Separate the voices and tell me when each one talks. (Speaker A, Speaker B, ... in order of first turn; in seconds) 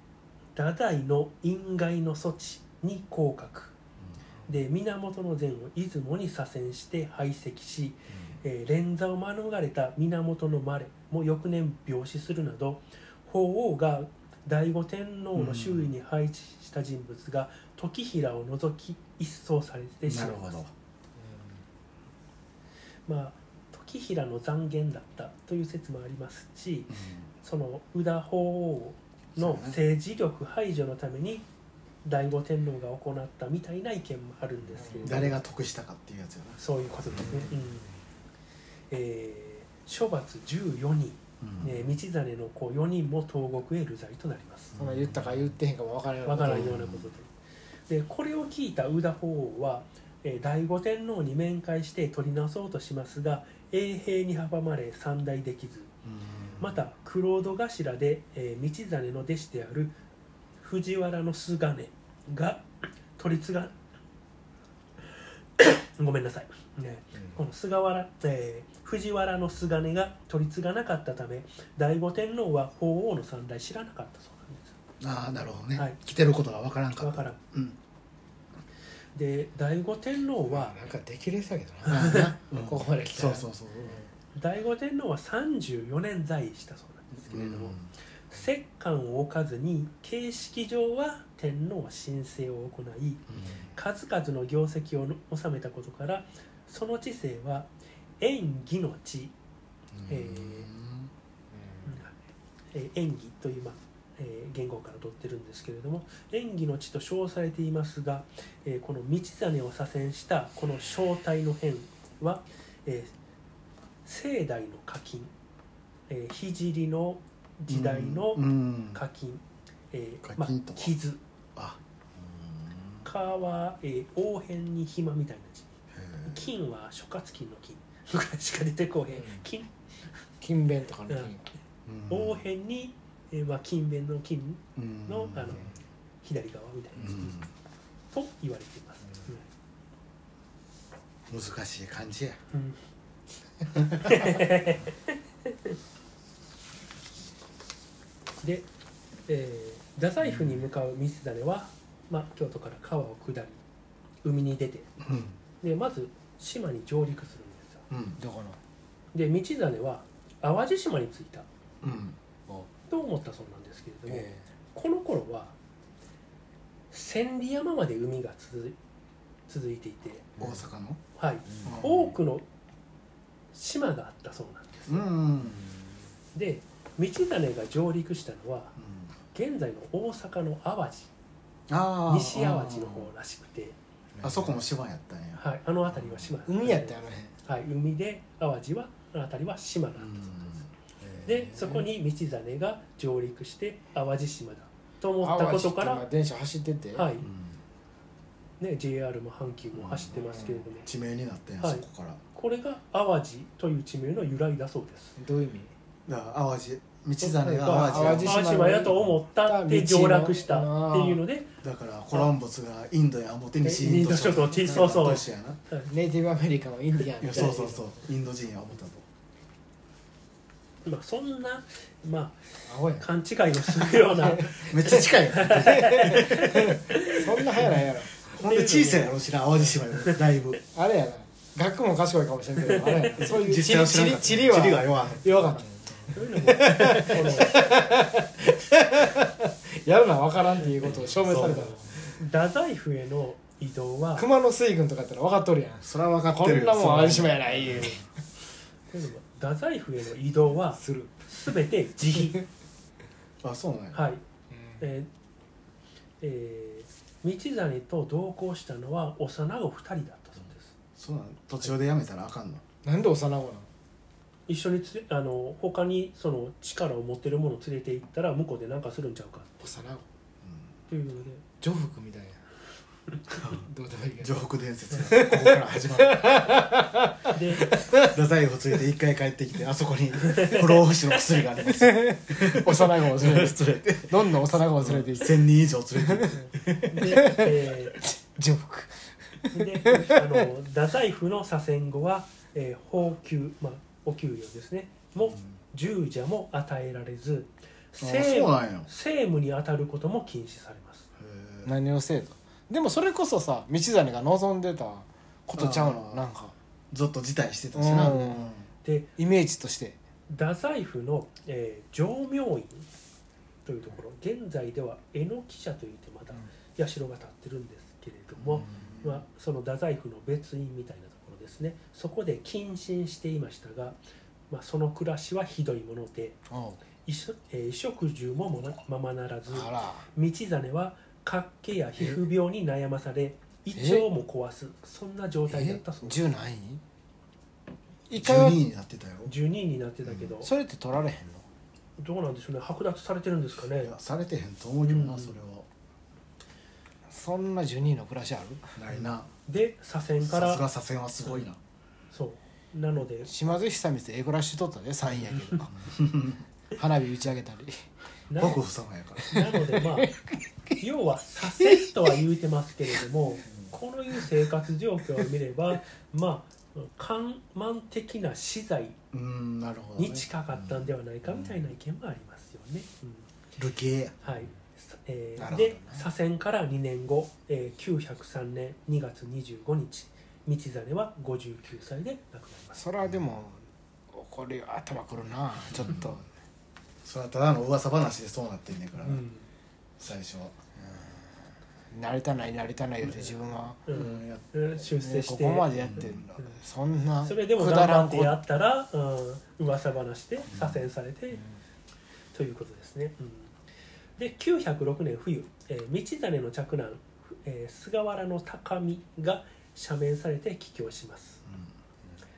Speaker A: 0.5-3.7, 4.5-20.6, 23.1-31.5, 32.0-35.4, 36.6-37.9, 38.9-44.7, 46.2-47.3, 47.9-55.9, 56.6-60.0, 60.6-62.6, 63.1-63.7, 65.6-74.8, 77.0-77.4, 79.1-80.8, 81.9-82.3, 84.3-87.8, 88.3-97.7, 98.2-99.3, 100.1-100.7, 101.8-102.1, 102.7-113.1, 114.0-115.3, 116.1-121.2, 123.0-125.7, 126.2-129.7, 132.1-135.7, 136.2-137.3, 138.1-139.4, 142.5-142.8, 144.0-145.8, 148.4-148.7, 149.3-153.6, 154.2-154.9, 155.6-157.8, 159.1-161.5, 162.9-165.5, 166.9-168.8, 169.5-170.3, 171.2-172.4, 173.5-175.1, 176.3-178.8, 179.3-181.1, 182.1-183.8, 185.3-190.6, 191.2-196.0, 196.9-197.3, 198.6-200.9, 201.6-205.2, 207.2-211.5, 213.6-215.9, 220.8-227.2, 228.4-229.2, 232.7-233.2, 236.1-237.8, 242.2-244.3, 248.9-252.4, 253.9-254.2, 254.8-255.1, 256.2-260.7, 264.5-269.7, 270.9-271.4, 277.3-277.9, 280.3-280.6, 286.3-288.0, 289.5-301.1, 308.8-309.1, 310.3-312.9, 313.6-324.0, 324.5-326.4, 327.1-336.2, 339.2-340.5, 342.0-343.9, 344.9-345.4, 349.4-350.6, 352.1-353.3, 358.3-358.6, 359.3-360.1, 360.8-369.0, 370.0-373.3, 374.2-382.8, 389.0-389.5, 393.9-396.6, 397.2-401.4, 402.3-403.5, 404.2-411.4
Speaker B: 8.1-8.4, 15.3-15.9, 20.1-20.7, 26.9-27.3, 29.3-29.8, 35.0-37.5, 41.4-41.9, 44.7-45.5, 46.4-47.1, 56.0-56.7, 75.0-77.8, 81.9-84.0, 87.3-87.9, 93.3-93.6, 99.9-101.1, 117.7-119.0, 120.2-120.9, 121.5-123.0, 125.9-126.5, 131.8-132.4, 134.8-135.7, 136.9-137.5, 141.3-142.4, 143.8-144.1, 150.3-150.6, 155.0-155.3, 157.9-158.2, 161.8-162.2, 170.4-171.0, 171.6-172.1, 174.9-175.7, 178.8-179.1, 181.7-183.1, 184.2-186.3, 190.0-191.7, 197.2-197.6, 199.7-200.2, 200.8-202.2, 206.1-208.4, 211.6-215.6, 217.2-219.0, 224.7-226.8, 227.6-230.6, 233.2-235.6, 240.8-241.8, 245.8-248.0, 253.4-254.0, 261.0-262.6, 270.4-270.7, 273.3-273.6, 274.2-276.6, 277.9-287.2, 295.2-295.5, 298.0-298.9, 301.2-301.7, 305.5-306.2, 306.9-308.7, 318.4-319.2, 338.1-339.3, 343.8-345.6, 348.8-349.3, 350.2-351.6, 355.7-356.4, 358.4-359.3, 369.1-371.6, 373.6-374.1, 385.7-386.1, 387.0-389.2, 390.0-390.6, 393.9-394.4, 395.8-396.3, 400.5-400.8, 411.4-411.7
Speaker C: 21.2-21.6, 34.7-35.3, 37.2-37.5, 44.7-46.9, 80.5-84.1, 101.5-101.9, 129.1-129.4, 130.4-131.4, 158.2-158.6, 164.1-164.4, 170.4-170.6, 171.5-171.8, 175.4-175.9, 184.1-184.6, 186.4-187.3, 195.2-197.1, 200.1-200.7, 205.2-205.7, 207.4-211.2, 214.6-215.2, 215.8-218.0, 222.7-223.1, 223.6-228.1, 230.7-242.1, 244.2-248.0, 250.8-251.1, 254.5-254.8, 262.8-263.7, 269.6-270.1, 271.6-272.4, 273.5-274.4, 274.9-278.1, 281.6-286.3, 287.0-290.4, 301.6-306.5, 307.7-308.5, 309.2-310.0, 326.5-326.8, 329.5-330.1, 333.7-334.1, 335.5-336.8, 338.1-338.6, 340.4-341.4, 347.1-348.8, 353.2-355.9, 356.7-357.9, 359.2-360.1, 375.4-376.0, 382.7-386.2, 391.9-393.9, 395.0-398.4